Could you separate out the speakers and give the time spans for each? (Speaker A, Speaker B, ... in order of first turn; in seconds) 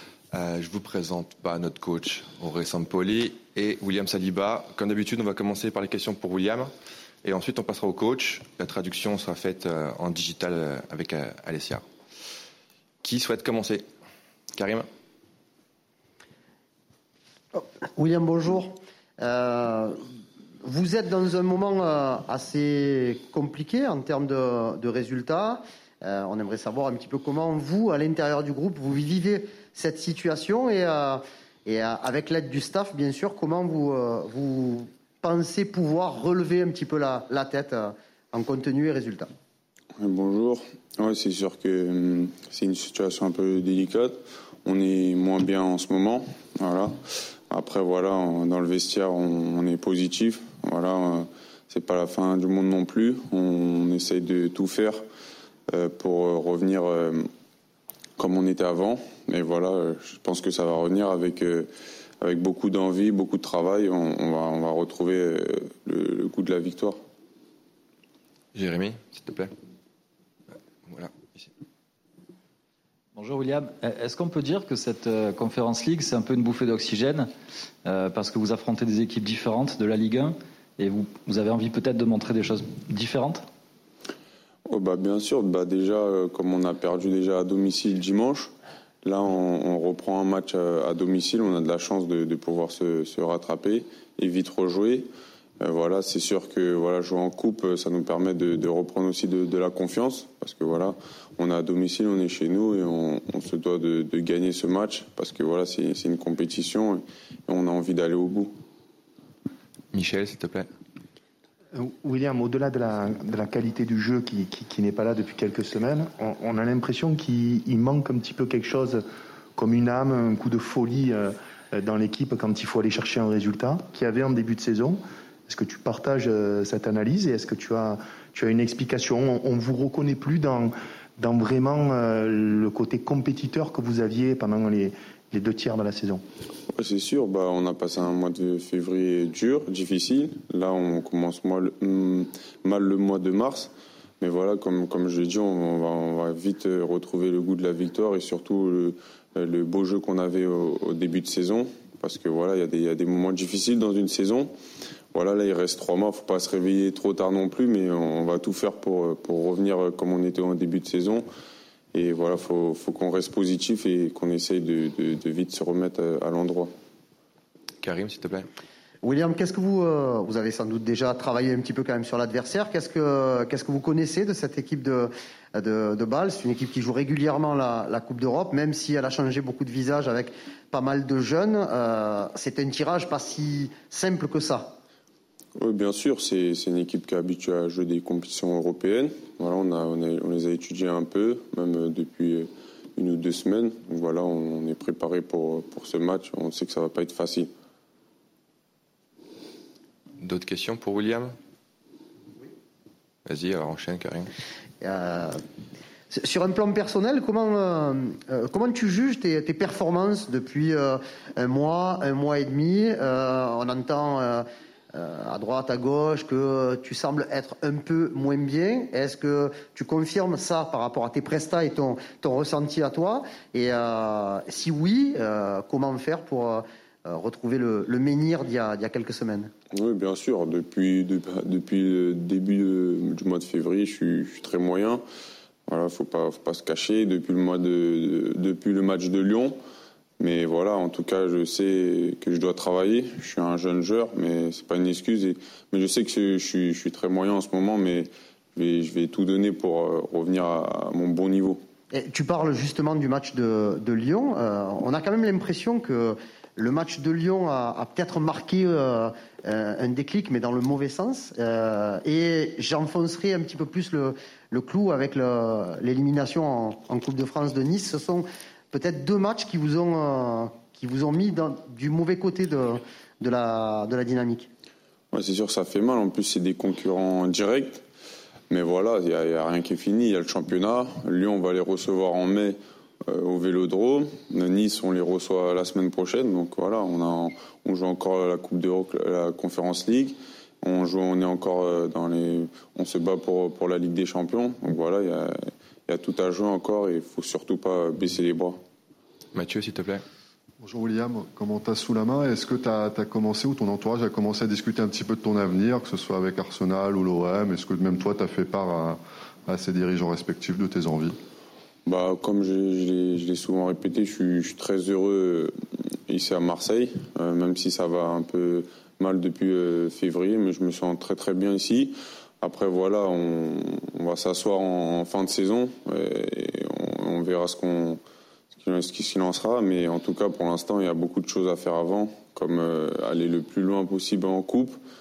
Speaker A: 0.3-6.7, 7.2-11.8, 13.0-13.8, 14.5-14.8, 68.5-69.5, 70.9-71.5, 109.9-110.7, 167.8-168.5, 200.2-201.3, 203.2-204.3, 299.3-300.0
Speaker B: 17.5-20.0, 20.6-39.3, 169.0-184.8, 204.8-205.4, 206.1-229.5, 251.9-274.5
Speaker C: 40.0-46.9, 47.5-55.0, 55.7-57.3, 58.2-61.7, 62.2-67.0, 84.7-88.5, 89.0-95.1, 95.6-108.5, 136.7-154.5, 155.1-161.2, 161.9-166.7, 185.6-197.5, 229.7-235.0, 235.7-239.5, 240.2-251.6, 275.1-277.8, 278.5-295.3, 295.9-298.6, 311.9-315.5, 316.1-328.0, 328.5-334.8
Speaker D: 73.2-77.3, 77.8-83.4
Speaker E: 111.7-119.0, 119.5-136.2
Speaker F: 300.6-311.1